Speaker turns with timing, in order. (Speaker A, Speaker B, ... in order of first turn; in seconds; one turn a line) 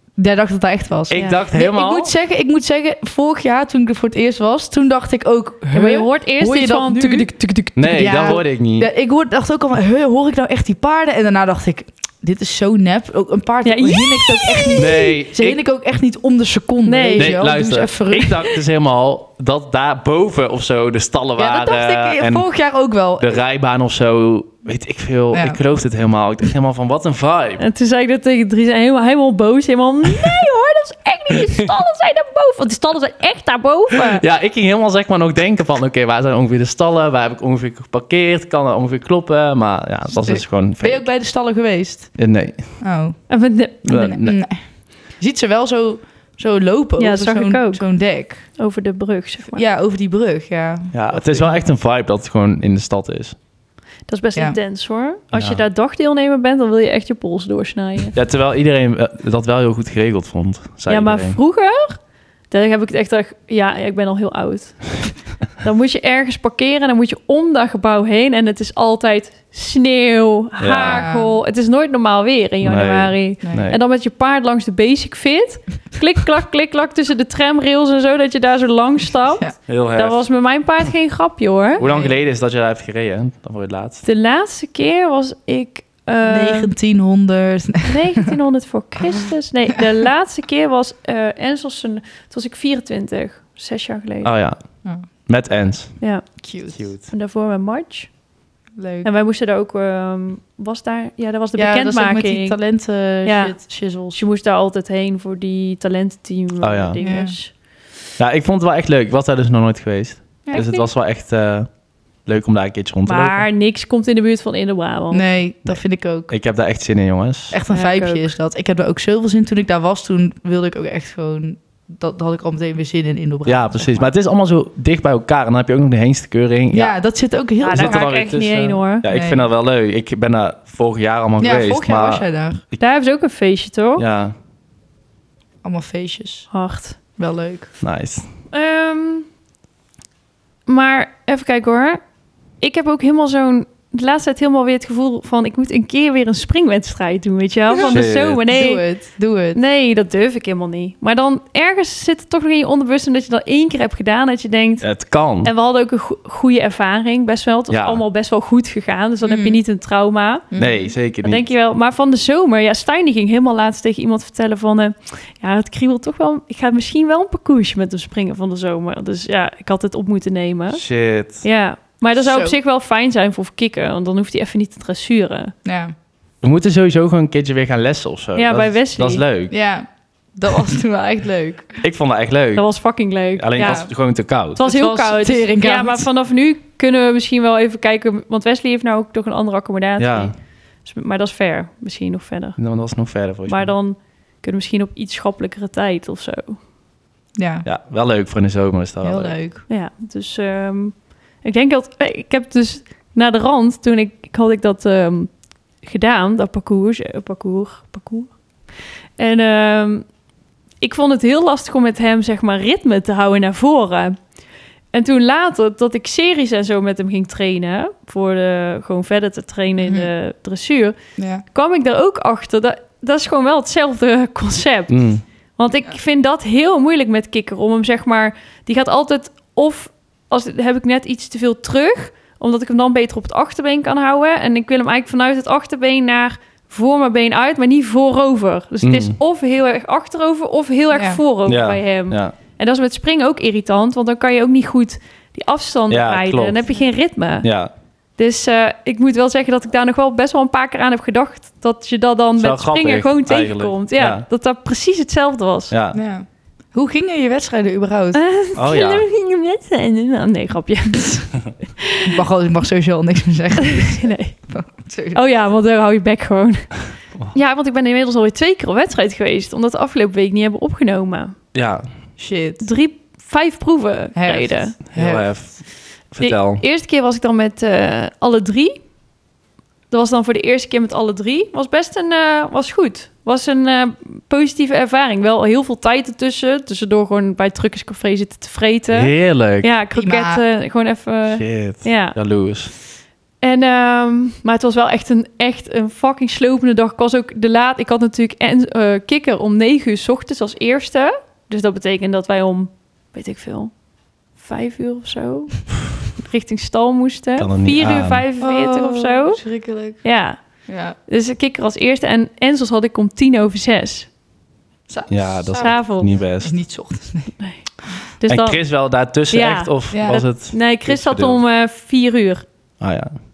Speaker A: 0.2-18.5
Speaker B: 1.1-2.1
Speaker C: 1.1-1.4
Speaker C: 5.7-7.4
Speaker B: 7.8-8.9
Speaker C: 13.7-15.2
Speaker B: 14.7-15.6
Speaker C: 16.9-17.5
Speaker B: 17.2-22.5
Speaker A: 21.4-23.4
Speaker B: 23.2-27.6
Speaker A: 25.3-25.6
Speaker C: 27.6-34.2
Speaker B: 34.0-41.0
Speaker A: 40.1-42.2
Speaker B: 42.2-42.8
Speaker A: 42.8-43.2
Speaker C: 43.3-43.9
Speaker B: 43.9-44.4
Speaker A: 43.9-44.6
Speaker A: 45.2-48.5
Speaker C: 47.0-47.9
Speaker C: 48.5-49.6
Speaker A: 49.5-51.7
Speaker B: 50.9-53.4
Speaker C: 54.1-58.2
Speaker B: 55.3-55.6
Speaker B: 58.1-61.4
Speaker C: 60.9-62.0
Speaker C: 62.5-81.8
Speaker B: 70.6-71.1
Speaker A: 70.8-71.4
Speaker B: 72.6-73.8
Speaker A: 73.4-73.7
Speaker B: 79.7-80.2
Speaker A: 81.8-82.2
Speaker B: 81.8-84.0
Speaker C: 84.0-86.7
Speaker A: 86.2-88.3
Speaker C: 87.9-94.3
Speaker B: 94.2-94.6
Speaker B: 95.3-96.0
Speaker C: 96.0-96.3
Speaker A: 96.4-96.9
Speaker B: 96.7-97.1
Speaker C: 96.8-98.1
Speaker A: 98.8-99.1
Speaker C: 99.0-102.6
Speaker A: 101.6-104.2
Speaker C: 103.2-103.6
Speaker C: 104.1-107.5
Speaker B: 106.6-107.0
Speaker A: 107.0-107.3
Speaker B: 108.2-111.7
Speaker C: 110.5-110.9
Speaker B: 112.3-113.5
Speaker C: 113.0-115.2
Speaker A: 115.1-116.3
Speaker B: 115.7-117.6
Speaker A: 117.5-124.1
Speaker C: 117.7-118.3
Speaker B: 123.5-127.0
Speaker A: 126.7-128.1
Speaker C: 127.6-129.1
Speaker B: 127.7-132.8
Speaker A: 129.1-129.4
Speaker A: 131.4-132.6
Speaker C: 132.8-134.0
Speaker B: 134.0-134.3
Speaker A: 135.6-136.5
Speaker C: 136.5-137.0
Speaker A: 137.2-137.7
Speaker B: 137.8-138.3
Speaker C: 138.5-139.3
Speaker C: 140.7-142.0
Speaker C: 142.6-148.8
Speaker B: 147.8-148.4
Speaker A: 148.5-149.6
Speaker C: 149.6-154.9
Speaker B: 154.8-155.5
Speaker C: 155.4-160.5
Speaker B: 157.7-158.0
Speaker A: 159.2-159.6
Speaker A: 160.5-160.9
Speaker B: 160.6-161.5
Speaker C: 161.2-170.8
Speaker B: 170.7-171.4
Speaker C: 171.4-175.5
Speaker A: 172.2-172.6
Speaker A: 175.7-175.9
Speaker B: 176.4-179.5
Speaker C: 178.4-179.2
Speaker A: 179.5-181.8
Speaker B: 181.8-182.7
Speaker C: 182.6-183.9
Speaker B: 183.4-184.6
Speaker A: 183.6-183.9
Speaker C: 184.6-192.6
Speaker A: 184.6-186.1
Speaker B: 190.0-190.3
Speaker B: 192.6-193.7
Speaker C: 193.5-196.6
Speaker A: 197.4-197.7
Speaker B: 197.7-199.4
Speaker A: 199.0-199.7
Speaker C: 199.7-208.4
Speaker C: 209.2-210.1
Speaker C: 210.8-214.2
Speaker C: 214.9-221.0
Speaker A: 219.8-220.1
Speaker A: 221.2-221.4
Speaker C: 221.5-247.5
Speaker B: 224.9-225.2
Speaker B: 238.8-239.2
Speaker A: 240.9-241.2
Speaker B: 241.5-242.3
Speaker B: 245.9-246.6
Speaker B: 247.4-247.7
Speaker C: 248.2-255.7
Speaker B: 252.4-254.2
Speaker B: 255.7-256.0
Speaker A: 255.9-258.2
Speaker C: 258.1-262.1
Speaker B: 258.6-259.1
Speaker A: 262.1-265.2
Speaker C: 263.6-264.4
Speaker C: 265.1-266.8
Speaker C: 267.3-271.4
Speaker B: 271.5-271.9
Speaker A: 272.2-272.6
Speaker C: 272.6-274.8
Speaker A: 274.1-275.3
Speaker B: 274.9-276.6
Speaker C: 276.2-278.8
Speaker C: 279.9-292.2
Speaker B: 288.9-289.7
Speaker A: 289.9-290.4
Speaker B: 291.3-292.7
Speaker C: 293.4-303.7
Speaker C: 304.4-309.4
Speaker B: 307.4-308.2
Speaker A: 308.4-310.0
Speaker C: 310.0-310.4
Speaker A: 310.7-311.0
Speaker C: 311.1-314.1
Speaker A: 314.9-315.8
Speaker B: 315.1-316.5
Speaker C: 315.5-316.1
Speaker A: 316.4-317.4
Speaker C: 318.2-318.6
Speaker B: 318.3-321.4
Speaker C: 319.3-322.5
Speaker A: 319.9-320.2
Speaker B: 322.8-323.1